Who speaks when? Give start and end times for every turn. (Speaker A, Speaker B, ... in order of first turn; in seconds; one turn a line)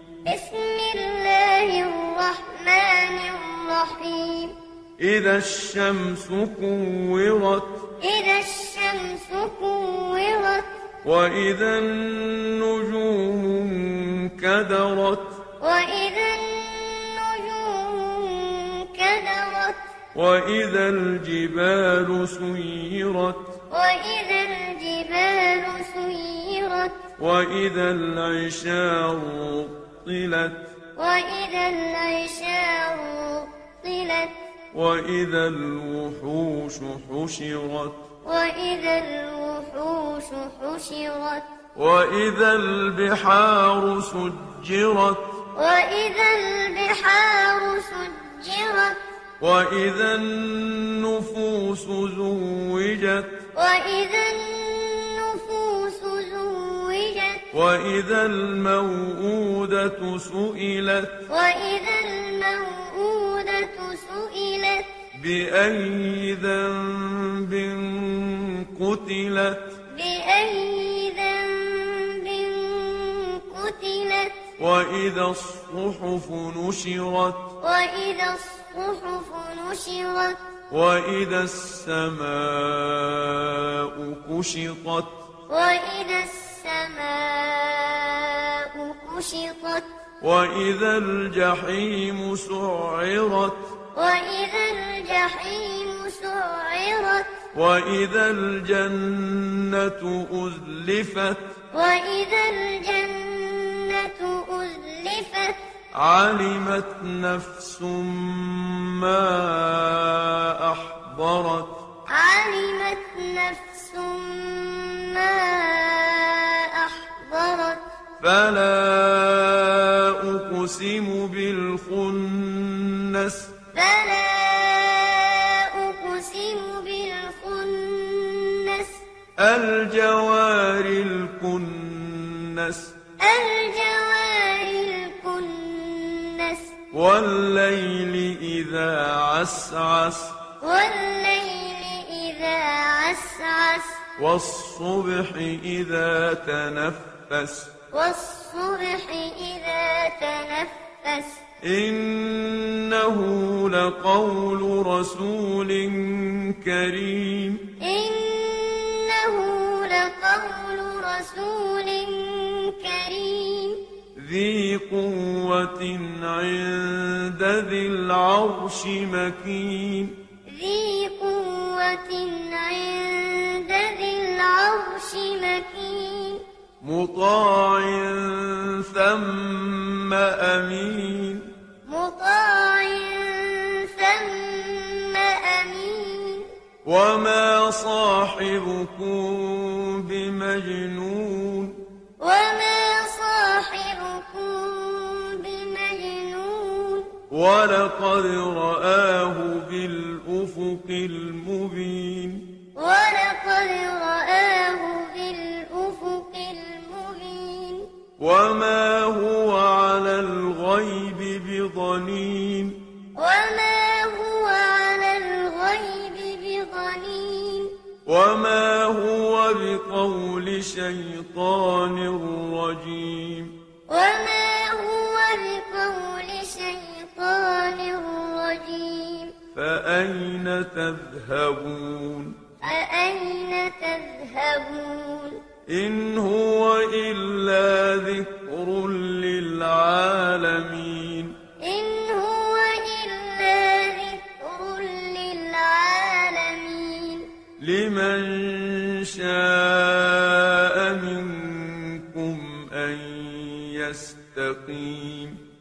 Speaker A: 0.2-4.6
Speaker B: 5.0-7.8
Speaker A: 8.0-10.7
Speaker B: 11.0-15.4
Speaker A: 15.6-19.8
Speaker B: 20.1-23.5
Speaker A: 23.7-27.1
Speaker B: 27.2-30.7
Speaker A: 31.0-34.4
Speaker B: 34.7-38.0
Speaker A: 38.2-41.5
Speaker B: 41.8-45.4
Speaker A: 45.5-49.0
Speaker B: 49.4-53.4
Speaker A: 53.5-57.5
Speaker B: 57.5-61.2
Speaker A: 61.3-65.0
Speaker B: 65.1-69.8
Speaker A: 69.9-74.4
Speaker B: 74.6-77.5
Speaker A: 77.6-80.5
Speaker B: 80.7-85.2
Speaker A: 85.5-89.9
Speaker B: 90.2-93.7
Speaker A: 93.9-97.4
Speaker B: 97.5-101.5
Speaker A: 101.7-105.6
Speaker B: 105.9-111.8
Speaker A: 112.1-117.9
Speaker B: 118.2-123.5
Speaker A: 123.7-129.0
Speaker B: 129.4-133.0
Speaker A: 133.2-136.8
Speaker B: 136.9-140.4
Speaker A: 140.6-144.1
Speaker B: 144.2-147.7
Speaker A: 147.9-151.4
Speaker B: 151.6-157.6
Speaker A: 157.8-163.8
Speaker B: 164.2-170.2
Speaker A: 170.5-176.4
Speaker B: 176.8-181.5
Speaker A: 181.8-186.5
Speaker B: 186.8-191.8
Speaker A: 192.2-197.2
Speaker B: 197.3-202.5
Speaker A: 202.8-207.9
Speaker B: 208.2-212.8
Speaker A: 213.2-217.8
Speaker B: 218.1-223.6
Speaker A: 223.9-229.4
Speaker B: 229.5-232.4
Speaker A: 232.6-235.4
Speaker B: 235.7-241.4
Speaker A: 241.6-247.3
Speaker B: 247.6-255.4